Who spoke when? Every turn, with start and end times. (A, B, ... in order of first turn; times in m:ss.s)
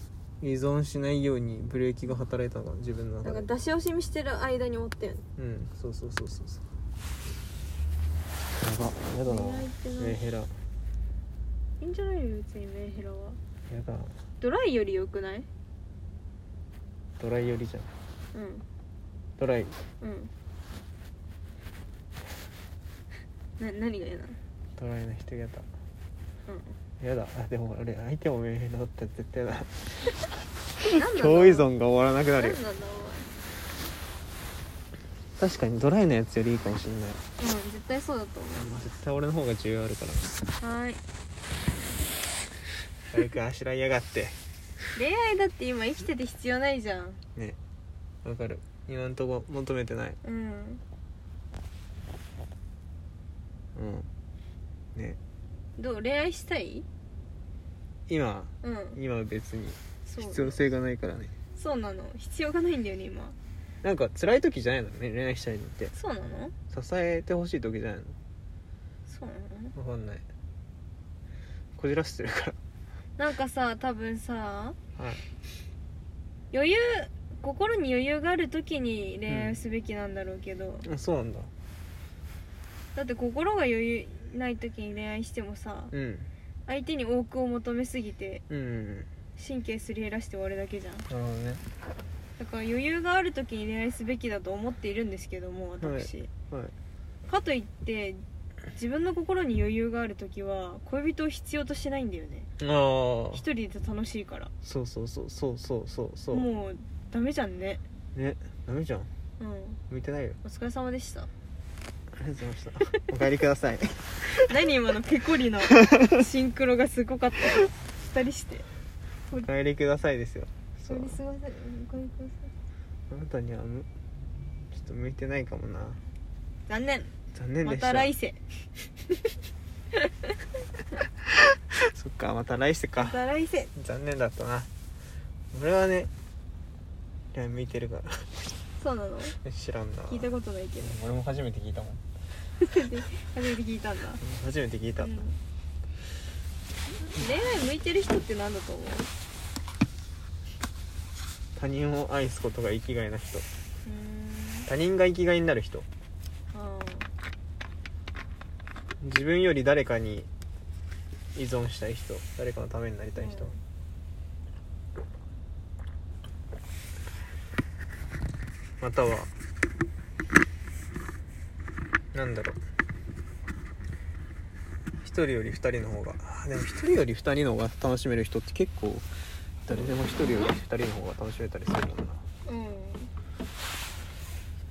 0:00.4-0:03.5 A
0:03.2-0:05.2 B
0:05.4-0:06.6 A
0:08.5-0:10.5 A
0:09.2-0:10.2 B
0:11.8-0:13.4 B
0:13.7-0:14.2 A
0:14.4-0:15.5 B
0:17.2-0:17.9 A
0:18.3-0:18.6 B
0:19.4-0:19.8 A
0:20.0-0:20.3 B
0:23.6-0:24.4 B
0:24.8-0:25.7 A
0:26.5-0:26.8 B
0:27.0-0:29.9 A
0:30.8-0:32.6 A
0:30.8-0:31.7 B
0:32.4-0:33.3 B
0:35.4-0:37.2 A
0:37.4-0:38.9 B
0:38.6-0:40.3 A
0:40.6-0:41.0 B
0:43.1-0:44.4 A
0:44.9-0:47.2 B
0:48.2-0:50.2 A
0:50.2-0:50.8 B
0:53.7-0:54.1 A
0:55.8-0:56.8 B
0:58.1-1:01.3 A
0:58.6-0:59.0 B
1:00.0-1:00.6 B
1:01.5-1:03.4 B
1:03.8-1:05.9 A
1:05.9-1:06.5 B
1:06.7-1:08.2 A
1:09.1-1:09.7 B
1:09.7-1:10.2 A
1:11.8-1:12.6 A
1:13.2-1:14.8 B
1:15.0-1:15.2 A
1:16.5-1:20.9 B
1:19.3-1:19.6 A
1:20.8-1:21.5 A
1:22.9-1:25.9 B
1:25.9-1:26.3 A
1:26.7-1:28.4 B
1:28.5-1:29.1 A
1:29.4-1:31.1 B
1:31.1-1:31.6 A
1:32.4-1:36.3 B
1:35.8-1:36.7 A
1:37.3-1:42.5 B
1:42.6-1:43.4 A
1:43.3-1:44.5 B
1:44.6-1:46.4 A
1:46.3-1:47.8 B
1:48.1-1:49.1 A
1:49.4-1:49.8 B
1:49.9-1:50.4 A
1:50.4-1:51.3 B
1:52.1-1:54.1 A
1:54.2-1:58.7 B
1:59.3-2:01.2 A
2:00.8-2:02.5 B
2:03.1-2:03.9 A
2:04.7-2:06.0 A
2:06.7-2:08.4 B
2:07.3-2:08.1 A
2:11.7-2:13.2 A
2:13.0-2:13.7 B
2:13.7-2:14.7 A
2:15.5-2:16.1 A
2:17.3-2:18.3 A
2:18.8-2:19.4 B
2:19.4-2:22.0 A
2:20.1-2:21.0 B
2:22.6-2:24.2 B
2:24.2-2:25.1 A
2:25.0-2:25.4 B
2:27.0-2:29.1 B
2:31.5-2:33.5 A
2:33.8-2:34.7 B
2:34.6-2:35.9 A
2:36.5-2:37.1 B
2:39.0-2:40.3 A
2:41.3-2:43.5 A
2:43.2-2:43.6 B
2:48.8-2:49.3 A
2:52.1-2:52.6 A
2:55.0-2:59.0 A
2:59.6-3:02.2 A
3:02.4-3:03.1 B